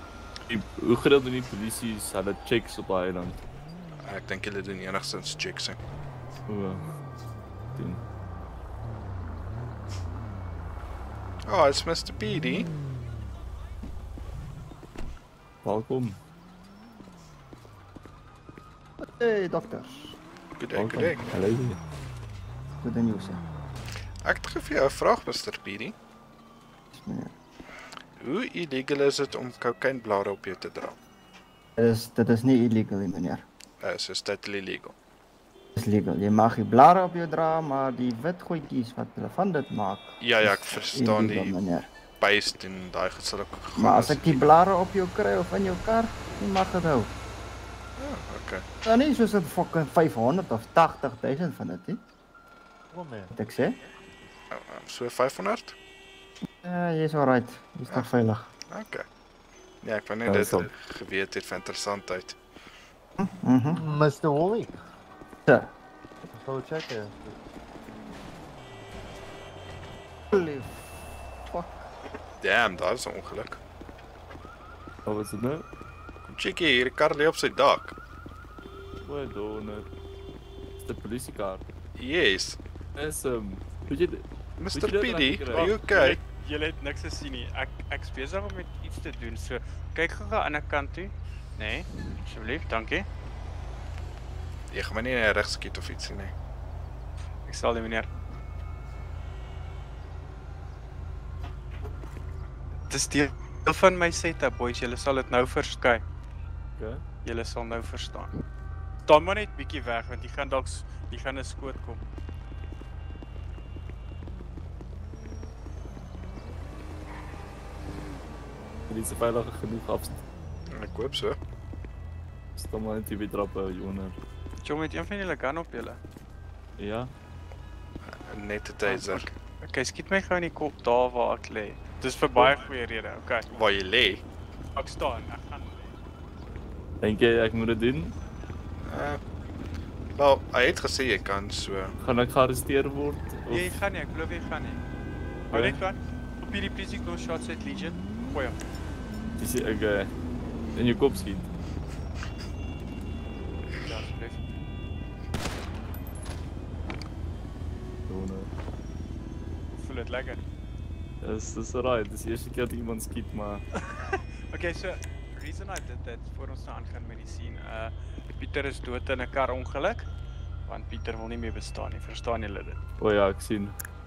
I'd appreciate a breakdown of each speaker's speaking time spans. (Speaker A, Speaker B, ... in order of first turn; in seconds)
Speaker A: 0.5-3.4, 6.5-6.8, 7.7-8.0, 15.6-16.2, 20.7-21.8, 60.2-60.7, 75.0-75.6, 79.0-79.9, 80.8-81.6, 83.0-86.1, 106.8-107.0, 118.9-120.2, 122.6-124.2, 126.8-127.1, 137.0-138.1, 142.0-143.7, 145.5-145.8, 149.4-150.1, 150.7-151.5, 158.1-158.5, 161.2-163.6, 173.0-173.8
Speaker B: 4.0-5.8, 11.4-12.7, 20.6-21.2, 24.2-25.9, 28.2-31.0, 33.8-34.9, 40.2-41.6, 42.2-44.5, 48.0-48.6, 54.5-55.7, 58.7-59.0, 59.8-62.4, 72.4-73.6, 76.3-77.9, 82.0-82.6, 84.6-86.2, 94.7-96.3, 120.7-121.4, 128.3-129.3, 133.5-134.2, 138.8-139.2, 140.1-141.9
Speaker C: 19.0-20.2, 22.8-23.4, 26.9-27.3, 31.8-33.4, 35.8-41.9, 43.8-47.1, 48.8-52.0, 53.3-53.8, 56.6-58.5, 63.2-63.8, 65.5-65.7, 70.3-70.7, 71.5-71.9
Speaker D: 52.9-53.3, 63.7-64.7, 66.3-67.3
Speaker E: 85.5-93.0, 97.5-98.1, 102.9-106.0, 107.2-108.3, 109.0-112.0, 124.6-126.0, 128.8-133.5, 134.8-135.8, 143.5-144.8, 145.5-148.6, 153.8-154.4, 159.8-160.4, 163.9-170.1, 170.7-172.8